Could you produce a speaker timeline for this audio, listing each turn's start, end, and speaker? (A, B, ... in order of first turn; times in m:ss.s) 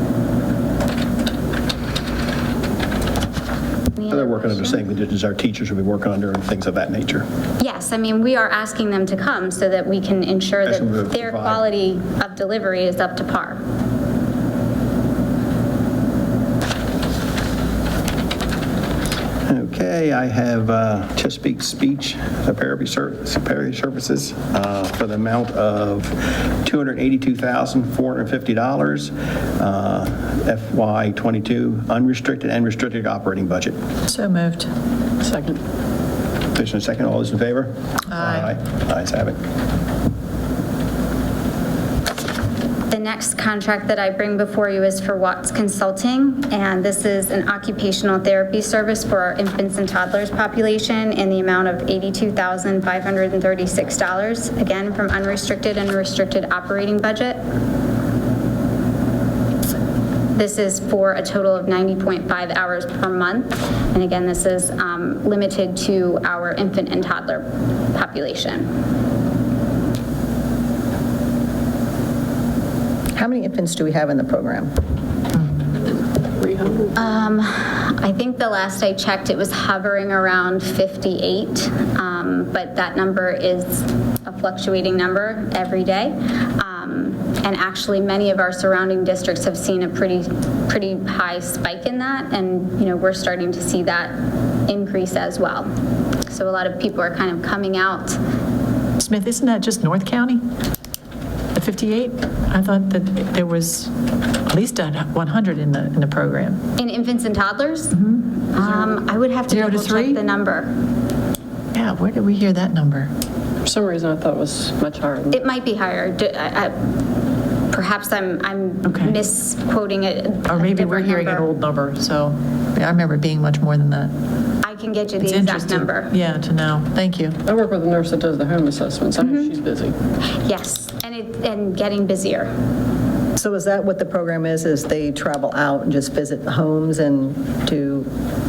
0:04.0-0:04.8 A
0:04.1-0:07.3 B
0:07.6-0:13.6 A
0:10.7-0:11.6 B
0:19.5-0:33.8 B
0:34.1-0:34.7 C
0:35.2-0:35.6 D
0:36.6-0:39.4 B
0:38.1-0:38.5 C
0:42.9-0:57.4 A
1:00.4-1:08.7 A
1:13.2-1:14.7 E
1:15.9-1:17.0 D
1:17.0-1:34.2 A
1:34.7-1:35.7 A
1:36.3-1:38.2 A
1:39.0-1:40.4 C
1:41.6-1:43.9 C
1:44.5-1:46.6 C
1:46.8-1:50.7 A
1:48.0-1:48.2 C
1:49.5-1:50.2 C
1:51.7-1:53.1 C
1:53.6-1:55.4 D
1:55.3-1:56.8 A
1:57.7-2:01.5 A
1:58.8-1:59.2 C
2:00.5-2:04.1 C
2:04.6-2:06.1 A
2:05.2-2:07.4 C
2:07.4-2:10.0 D
2:09.2-2:09.5 A
2:10.4-2:12.5 A
2:13.4-2:18.1 E